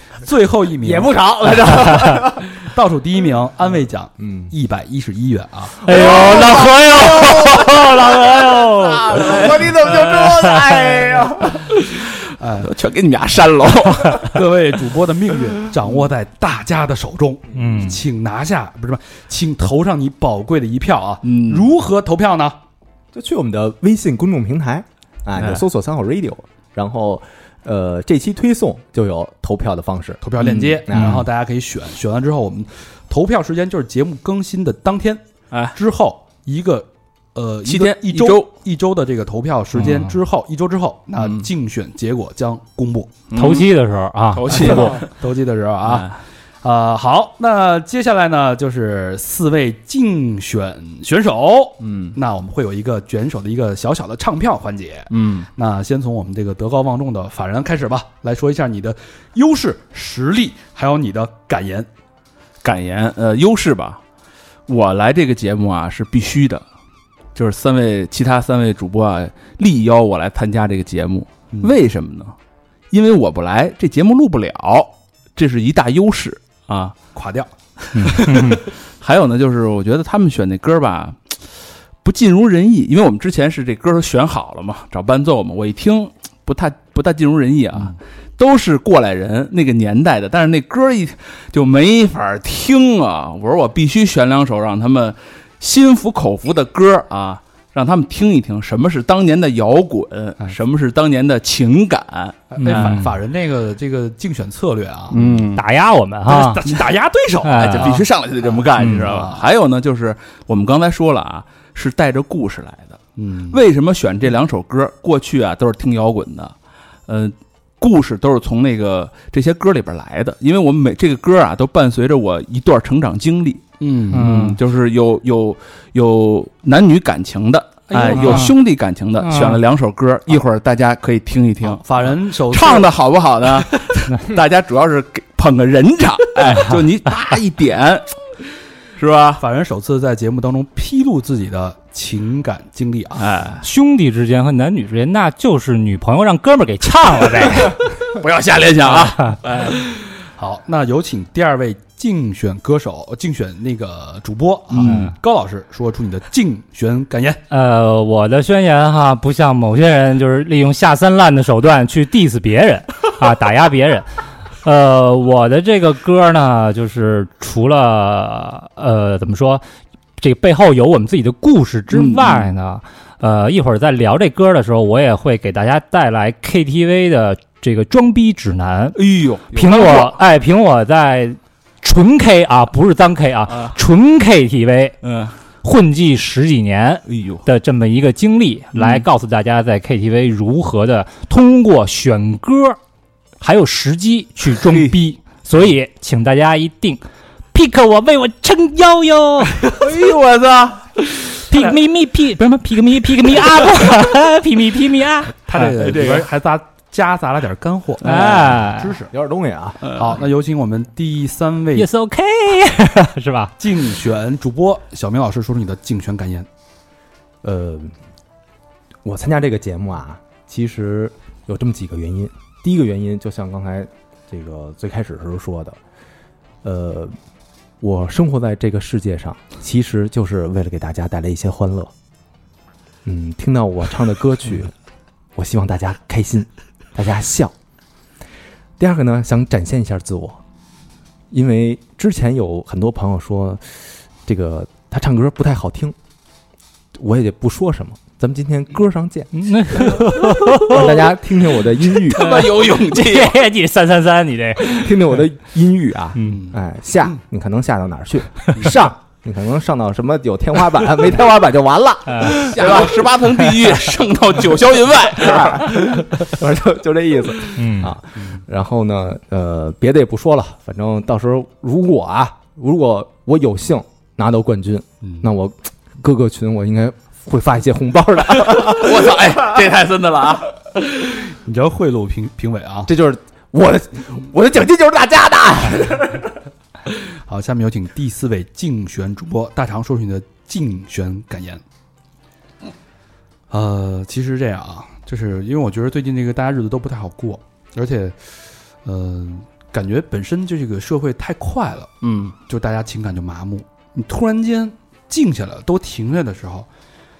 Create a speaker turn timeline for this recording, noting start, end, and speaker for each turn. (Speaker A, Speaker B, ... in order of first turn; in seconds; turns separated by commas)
Speaker A: 0.2-1.2, Speaker B: 0.8-2.5, Speaker C: 1.6-2.2, Speaker A: 2.5-5.8, Speaker B: 4.2-4.5, Speaker C: 5.8-9.5, Speaker D: 5.9-7.1, Speaker B: 5.9-11.7, Speaker D: 9.2-10.3, Speaker C: 10.3-10.7, Speaker D: 11.5-14.5, Speaker A: 12.3-12.7, Speaker A: 14.2-22.6, Speaker C: 17.5-18.0, Speaker D: 21.2-21.7, Speaker B: 23.1-31.2, Speaker D: 25.4-25.6, Speaker A: 30.2-43.1, Speaker D: 37.7-38.5, Speaker D: 41.2-41.5, Speaker D: 43.3-43.7, Speaker C: 43.4-45.0, Speaker D: 44.3-45.1, Speaker A: 44.5-61.9, Speaker D: 45.8-46.2, Speaker D: 51.8-52.2, Speaker D: 55.1-55.5, Speaker D: 62.6-64.0, Speaker D: 64.7-66.7, Speaker D: 67.3-72.3, Speaker D: 72.9-77.0, Speaker A: 77.2-77.5, Speaker C: 78.0-78.6, Speaker D: 78.0-81.4, Speaker D: 82.0-103.0, Speaker A: 102.5-105.2, Speaker C: 102.6-103.1, Speaker D: 105.1-105.7, Speaker C: 105.6-106.6, Speaker A: 106.3-109.5, Speaker C: 107.4-108.0, Speaker D: 107.6-113.0, Speaker C: 108.8-109.1, Speaker A: 113.2-113.6, Speaker D: 113.5-116.5, Speaker D: 117.1-138.1, Speaker A: 123.8-124.3, Speaker C: 124.1-124.6, Speaker A: 127.9-128.5, Speaker C: 128.1-128.5, Speaker C: 129.2-129.6, Speaker A: 131.6-132.9, Speaker C: 136.5-136.8, Speaker D: 139.0-139.4, Speaker A: 139.4-143.2, Speaker D: 143.2-143.7, Speaker C: 143.6-147.8, Speaker D: 148.1-149.8, Speaker C: 148.9-149.4, Speaker A: 150.4-157.4, Speaker D: 154.7-155.1, Speaker C: 154.8-155.2, Speaker C: 157.5-164.1, Speaker C: 164.6-169.6, Speaker C: 170.2-179.0, Speaker D: 171.9-172.5, Speaker D: 178.9-180.2, Speaker C: 179.5-185.0, Speaker D: 183.5-183.8, Speaker D: 185.0-185.3, Speaker C: 185.6-192.8, Speaker D: 187.1-187.5, Speaker D: 188.8-189.1, Speaker C: 193.4-199.7, Speaker D: 194.6-195.0, Speaker D: 199.6-201.4, Speaker C: 201.4-205.4, Speaker A: 205.4-209.1, Speaker D: 205.6-206.3, Speaker C: 208.0-209.0, Speaker D: 208.0-208.5, Speaker B: 209.1-209.9, Speaker D: 209.8-210.2, Speaker A: 209.9-211.9, Speaker C: 211.8-213.6, Speaker A: 213.6-216.5, Speaker B: 217.4-217.9, Speaker B: 219.0-225.8, Speaker B: 226.6-227.2, Speaker B: 227.8-231.9, Speaker B: 233.1-234.7, Speaker B: 235.3-237.5, Speaker B: 238.8-240.4, Speaker B: 241.3-246.0, Speaker B: 247.0-252.3, Speaker C: 249.3-251.1, Speaker D: 252.0-253.4, Speaker C: 252.0-255.2, Speaker B: 254.7-263.2, Speaker A: 256.2-256.6, Speaker C: 262.1-262.5, Speaker D: 262.3-265.9, Speaker B: 265.1-279.3, Speaker C: 267.6-267.9, Speaker D: 278.4-280.6, Speaker A: 281.4-282.9, Speaker B: 282.9-286.3, Speaker A: 287.3-291.6, Speaker A: 293.5-298.2, Speaker A: 298.8-306.7, Speaker D: 302.0-302.4